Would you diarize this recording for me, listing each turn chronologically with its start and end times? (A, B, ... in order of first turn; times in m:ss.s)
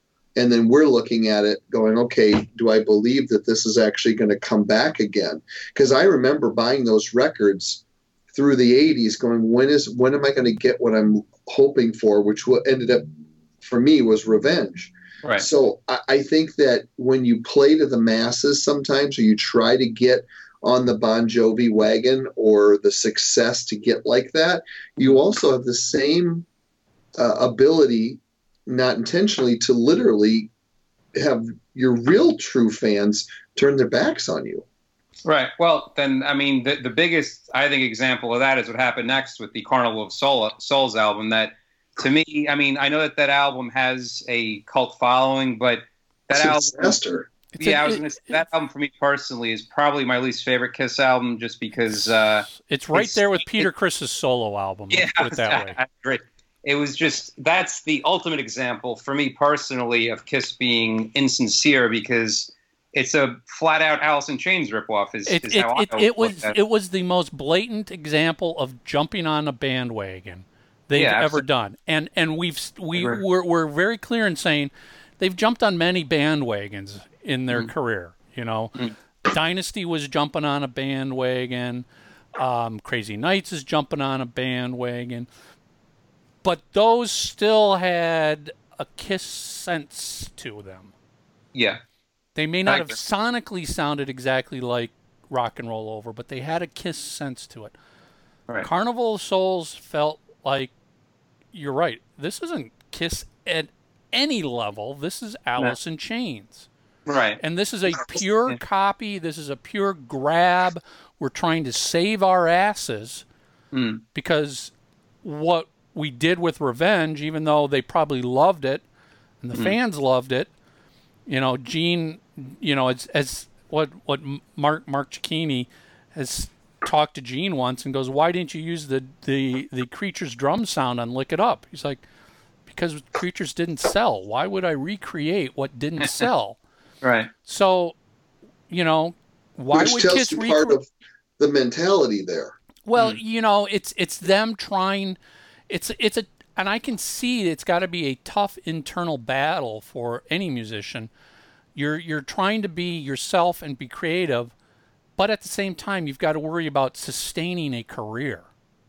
0:00.4-0:07.8 A
0:08.3-0:13.1 A
0:13.6-0:26.4 A
0:27.2-0:30.5 A
0:31.1-0:34.6 A
0:35.2-0:47.0 B
0:46.3-0:47.3 A
0:47.5-0:48.4 C
0:47.6-0:53.7 B
0:52.5-0:55.8 C
0:54.9-1:06.6 B
1:05.3-1:25.3 C
1:11.0-1:11.4 B
1:26.4-1:30.9 C
1:31.5-1:31.8 B
1:32.4-1:37.8 C
1:32.7-1:33.0 B
1:38.6-1:40.7 C
1:41.5-1:46.7 C
1:47.1-1:47.4 B
1:47.4-1:53.2 C
1:53.7-1:54.0 B
1:54.2-1:54.7 C
1:55.2-1:58.8 C
1:59.4-2:00.5 C
2:01.3-2:12.0 C
2:12.7-2:16.6 C
2:17.0-2:17.3 B
2:17.4-2:18.0 C
2:18.7-2:20.8 C
2:19.7-2:20.9 A
2:21.4-2:22.6 A
2:22.9-2:25.2 C
2:25.7-2:31.1 C
2:31.8-2:34.5 C
2:35.2-2:38.5 C